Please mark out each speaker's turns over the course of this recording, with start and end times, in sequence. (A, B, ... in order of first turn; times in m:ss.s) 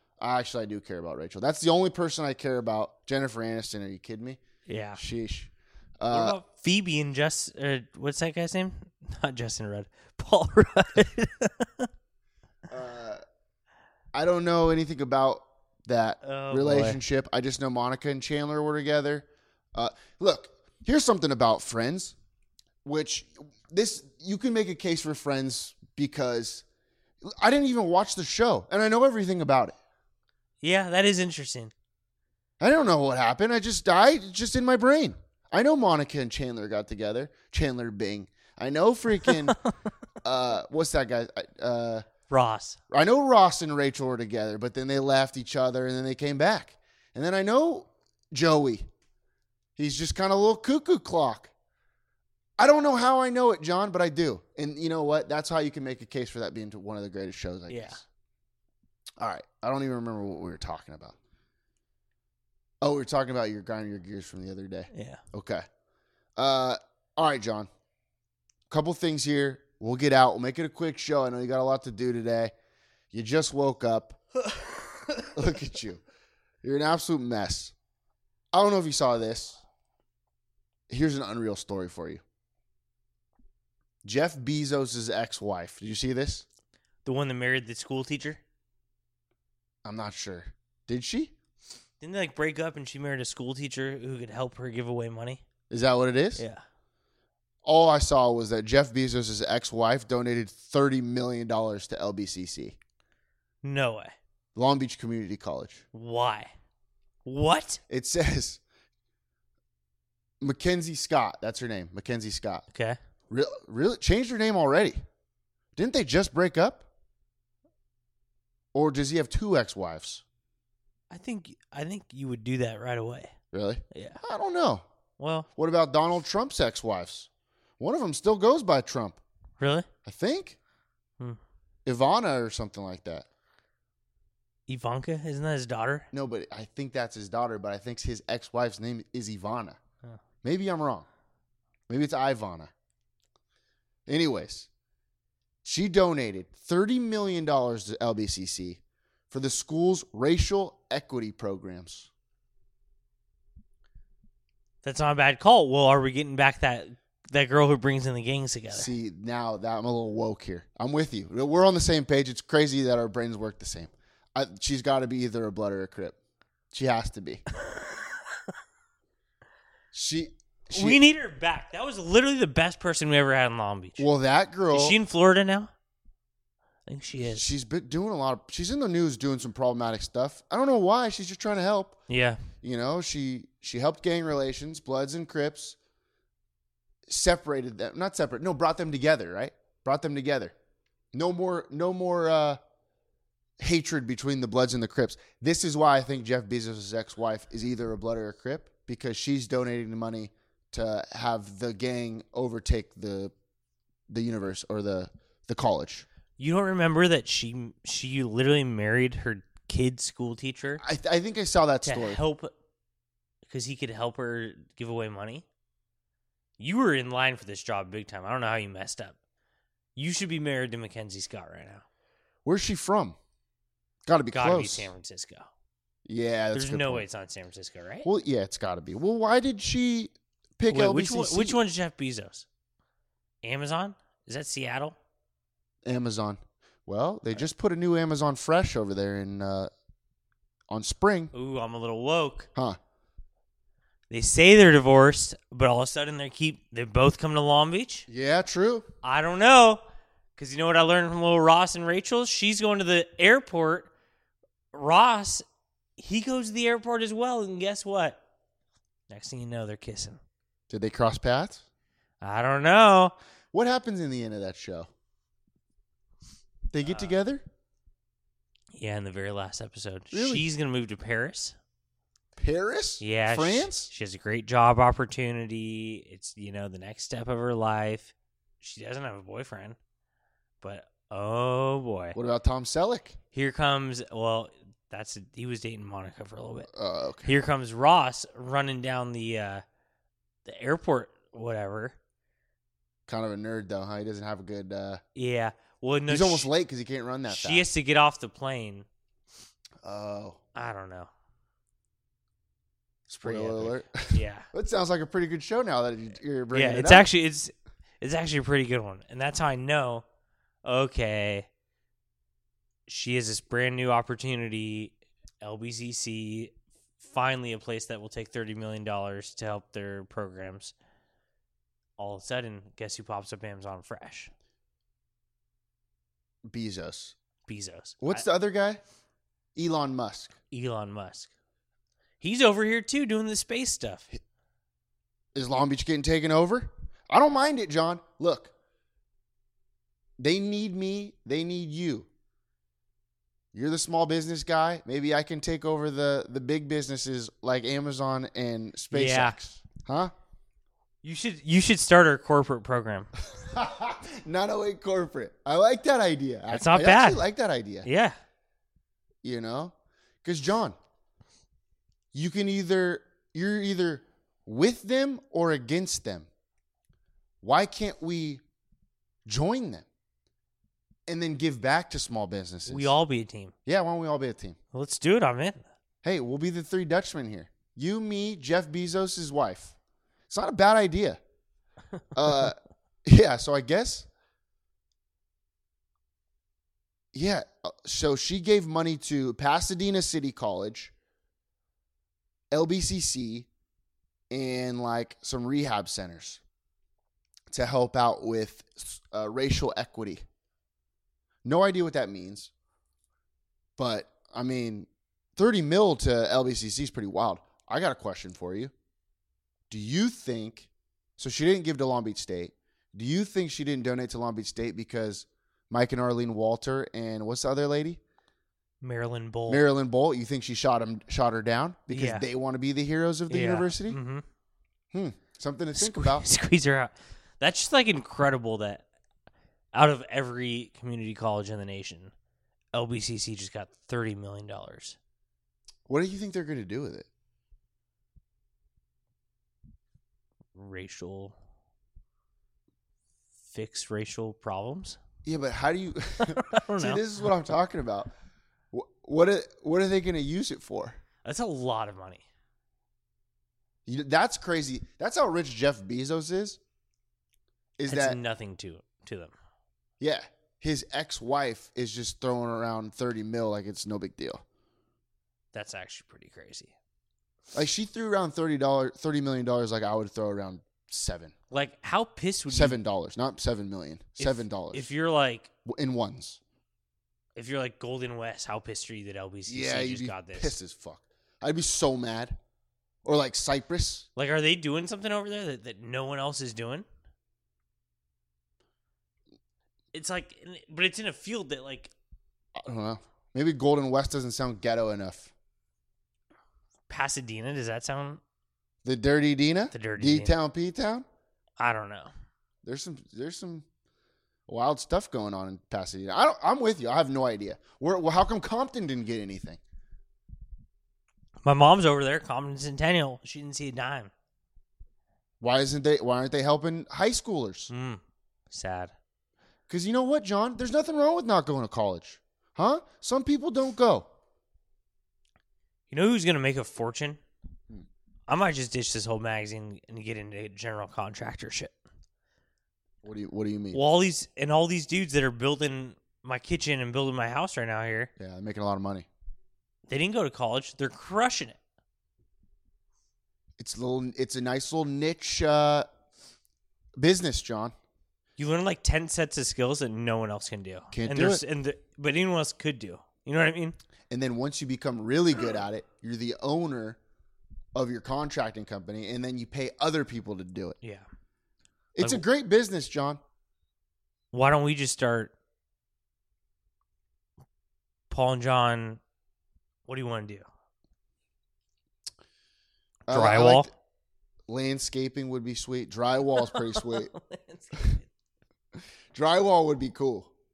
0:00.2-0:04.4 A
0:04.7-0:05.0 B
0:05.0-0:06.4 A
0:06.1-0:11.9 B
0:12.7-0:13.2 A
0:14.1-0:22.1 A
0:16.2-0:17.0 B
0:22.8-0:26.6 A
0:27.2-0:29.8 A
0:30.6-0:31.7 B
0:32.6-0:39.6 A
0:40.2-0:42.0 A
0:42.3-0:42.8 B
0:42.9-0:48.9 A
0:49.8-0:51.5 A
0:52.6-0:58.0 A
0:57.7-0:58.0 B
0:59.2-1:01.2 A
1:02.8-1:05.6 A
1:04.9-1:05.2 B
1:06.4-1:07.7 A
1:08.7-1:12.5 A
1:13.1-1:14.2 A
1:15.3-1:16.0 A
1:16.6-1:17.7 A
1:18.5-1:19.6 A
1:20.9-1:22.2 A
1:24.0-1:26.4 A
1:27.0-1:28.4 B
1:29.8-1:31.3 A
1:32.0-1:35.4 B
1:35.7-1:36.4 A
1:36.4-1:36.6 B
1:37.6-1:42.8 A
1:43.6-1:44.1 B
1:44.5-1:45.8 A
1:45.9-1:46.5 B
1:47.2-1:47.8 B
1:47.9-1:48.6 A
1:50.4-1:52.6 A
1:53.3-1:55.0 A
1:55.8-1:56.8 A
1:58.7-2:00.2 A
2:01.1-2:03.3 B
2:03.5-2:04.8 A
2:03.9-2:04.2 B
2:05.2-2:05.5 B
2:05.6-2:09.2 A
2:09.6-2:09.9 B
2:10.0-2:10.6 A
2:11.8-2:13.2 A
2:14.7-2:16.1 B
2:16.1-2:19.8 A
2:20.4-2:21.0 A
2:21.9-2:22.7 A
2:24.1-2:24.7 A
2:25.6-2:28.8 A
2:29.3-2:32.1 A
2:34.8-2:38.9 B
2:38.7-2:46.2 A
2:46.7-2:47.4 A
2:49.9-2:51.0 A
2:50.7-2:54.1 B
2:54.0-2:55.0 A
2:54.7-2:55.7 B
2:56.9-2:57.5 B
2:57.2-3:02.0 A
3:02.1-3:02.4 B
3:02.6-3:05.8 A
3:07.1-3:10.5 A
3:11.1-3:12.6 A
3:13.6-3:23.3 A
3:24.1-3:26.0 A
3:26.4-3:30.8 B
3:30.8-3:32.2 A
3:31.8-3:32.5 B
3:33.4-3:35.4 B
3:36.6-3:39.1 B
3:40.0-3:41.8 B
3:42.4-3:43.2 A
3:44.0-3:44.9 A
3:44.3-3:45.5 B
3:46.0-3:47.0 A
3:46.5-3:48.1 B
3:48.0-3:51.6 A
3:50.7-3:52.4 B
3:53.4-3:55.0 B
3:55.8-3:59.7 A
4:00.7-4:01.3 A
4:01.3-4:02.5 B
4:04.1-4:08.0 B
4:08.1-4:08.9 A
4:09.0-4:09.8 B
4:10.4-4:13.9 B
4:14.7-4:15.4 B
4:16.0-4:18.2 B
4:19.1-4:20.2 B
4:20.7-4:21.6 A
4:22.2-4:23.1 B
4:23.5-4:24.9 A
4:26.7-4:27.4 A
4:26.8-4:27.1 B
4:28.7-4:31.6 B
4:30.1-4:30.4 A
4:32.4-4:33.9 A
4:33.0-4:39.8 B
4:40.6-4:42.2 B
4:42.1-4:43.2 A
4:43.3-4:46.7 B
4:46.7-4:47.3 A
4:47.2-4:49.6 B
4:50.4-4:52.0 B
4:53.1-4:55.0 A
4:55.2-4:56.5 B
4:56.1-4:57.7 A
4:57.3-4:58.8 B
4:59.8-5:00.4 A
5:00.5-5:01.1 B
5:03.1-5:07.1 A
5:03.2-5:04.5 B
5:06.5-5:10.0 B
5:10.6-5:11.5 B
5:12.9-5:20.7 B
5:22.0-5:24.3 B
5:26.4-5:27.2 A
5:27.5-5:28.2 B
5:28.0-5:28.8 A
5:29.5-5:30.3 A
5:30.5-5:31.3 B
5:32.2-5:34.0 B
5:35.3-5:38.5 A
5:40.2-5:42.1 A
5:43.5-5:50.1 A
5:48.9-5:49.4 B
5:51.0-5:53.1 B
5:53.3-5:57.9 A
5:56.5-5:57.2 B
5:57.8-5:58.2 B
5:59.2-6:00.8 A
6:02.1-6:06.3 A
6:07.4-6:08.4 A
6:09.2-6:09.8 A
6:11.1-6:12.9 A
6:12.7-6:13.5 B
6:13.6-6:14.6 A
6:14.7-6:15.6 B
6:16.0-6:19.8 A
6:20.3-6:21.2 A
6:22.1-6:24.1 A
6:27.1-6:30.9 A
6:32.5-6:33.5 A
6:34.3-6:36.4 A
6:37.5-6:40.2 A
6:41.4-6:42.5 A
6:43.8-6:48.7 A
6:49.7-6:58.0 A
6:58.8-6:59.6 B
6:59.5-7:04.0 A
7:01.9-7:02.2 B
7:03.3-7:04.2 B
7:04.9-7:06.2 A
7:05.8-7:08.8 B
7:09.7-7:12.1 B
7:12.7-7:15.0 B
7:15.9-7:17.1 A
7:20.5-7:21.3 B
7:23.5-7:25.0 B
7:25.2-7:28.1 A
7:26.2-7:27.0 B
7:28.7-7:31.0 A
7:31.2-7:32.2 B
7:33.8-7:36.6 A
7:37.8-7:38.2 A
7:37.9-7:39.3 B
7:40.0-7:44.4 A
7:45.5-7:46.7 B
7:47.5-7:51.3 A
7:51.5-7:52.8 B
7:52.5-7:54.9 A
7:54.2-7:55.5 B
7:55.6-7:56.4 A
7:57.4-8:00.5 B
7:59.5-8:02.4 A
8:03.0-8:04.1 A
8:04.2-8:06.8 B
8:09.9-8:11.9 B
8:12.6-8:15.3 A
8:16.9-8:18.2 B
8:18.8-8:21.0 A
8:19.7-8:20.3 B
8:21.6-8:22.1 B
8:22.6-8:23.6 A
8:24.5-8:29.6 A
8:31.4-8:34.1 B
8:35.4-8:37.7 A
8:37.7-8:38.9 B
8:39.7-8:44.1 A
8:45.9-8:47.2 B
8:48.3-8:51.7 B
8:53.0-8:53.8 A
8:53.7-8:58.1 B
8:58.2-8:59.1 A
8:59.9-9:01.6 B
9:03.6-9:05.9 A
9:07.0-9:07.7 A
9:08.4-9:13.8 B
9:10.9-9:11.4 A
9:14.1-9:17.0 A
9:17.7-9:20.8 A
9:21.9-9:23.2 A
9:24.3-9:25.3 B
9:28.1-9:29.0 B
9:29.9-9:30.4 B
9:33.1-9:33.7 A
9:33.1-9:33.7 B
9:34.5-9:37.1 A
9:36.4-9:38.0 B
9:39.1-9:40.3 A